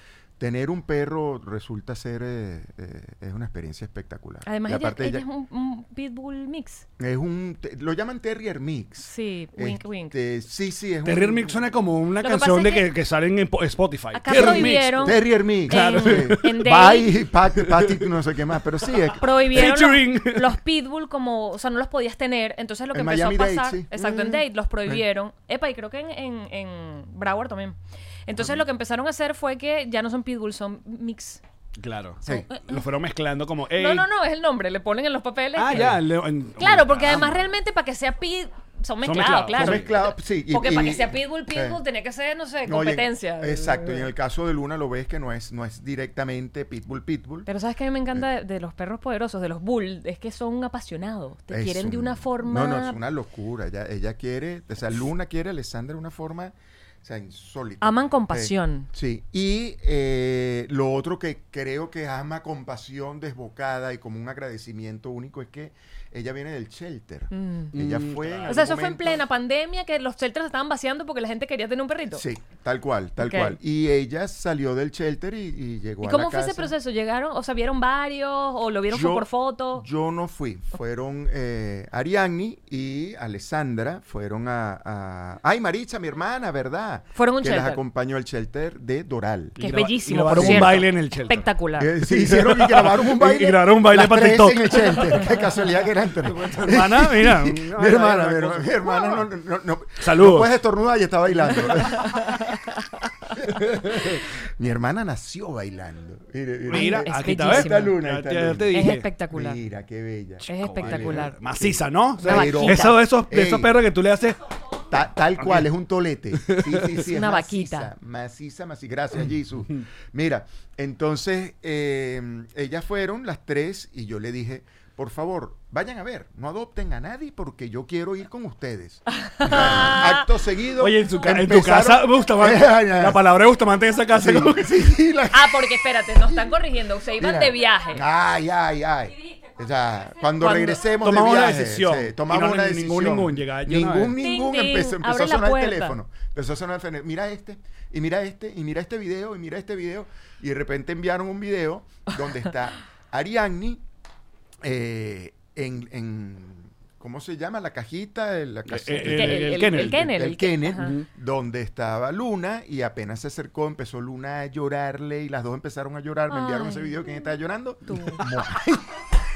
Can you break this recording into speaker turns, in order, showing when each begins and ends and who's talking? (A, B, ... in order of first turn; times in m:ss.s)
0:00.4-0:05.2 A
0:04.4-0:06.8 B
0:07.0-0:11.6 A
0:09.0-0:10.2 B
0:11.0-0:16.8 C
0:12.2-0:12.9 B
0:14.1-0:17.2 B
0:14.3-0:19.2 A
0:17.5-0:18.1 C
0:19.2-0:31.4 B
0:19.5-0:20.6 C
0:22.9-0:23.9 A
0:24.0-0:24.4 C
0:31.8-0:34.1 C
0:32.3-0:32.8 B
0:33.7-0:36.0 B
0:35.6-0:37.3 C
0:36.6-0:44.0 B
0:37.0-0:37.4 A
0:39.0-0:39.9 C
0:39.6-0:41.8 A
0:42.6-0:47.5 A
0:47.4-0:53.0 B
0:51.5-1:09.2 A
0:57.8-0:58.9 B
1:07.3-1:07.7 B
1:07.7-1:08.8 C
1:08.4-1:12.2 B
1:12.1-1:16.7 A
1:13.2-1:13.6 B
1:16.0-1:19.8 B
1:18.9-1:29.6 A
1:27.1-1:27.8 B
1:29.6-1:31.5 C
1:29.6-1:31.9 B
1:30.3-1:30.9 A
1:31.8-1:42.5 A
1:32.0-1:35.3 C
1:36.2-1:39.0 C
1:40.0-1:40.5 C
1:43.4-1:53.7 A
1:46.7-1:49.1 C
1:46.7-1:47.9 B
1:48.7-1:49.6 B
1:50.5-1:51.4 B
1:50.5-1:54.4 C
1:52.2-1:53.0 B
1:54.9-2:13.2 A
1:55.4-1:55.7 C
1:56.4-1:57.0 C
1:57.0-1:57.9 B
2:09.2-2:10.2 B
2:10.8-2:14.7 C
2:14.1-2:16.6 A
2:15.3-2:18.0 B
2:17.2-2:33.8 A
2:20.4-2:20.9 B
2:20.9-2:24.2 C
2:24.2-2:26.0 B
2:34.6-2:49.0 A
2:38.7-2:40.1 C
2:39.0-2:40.9 B
2:46.3-2:47.2 B
2:47.9-2:48.2 B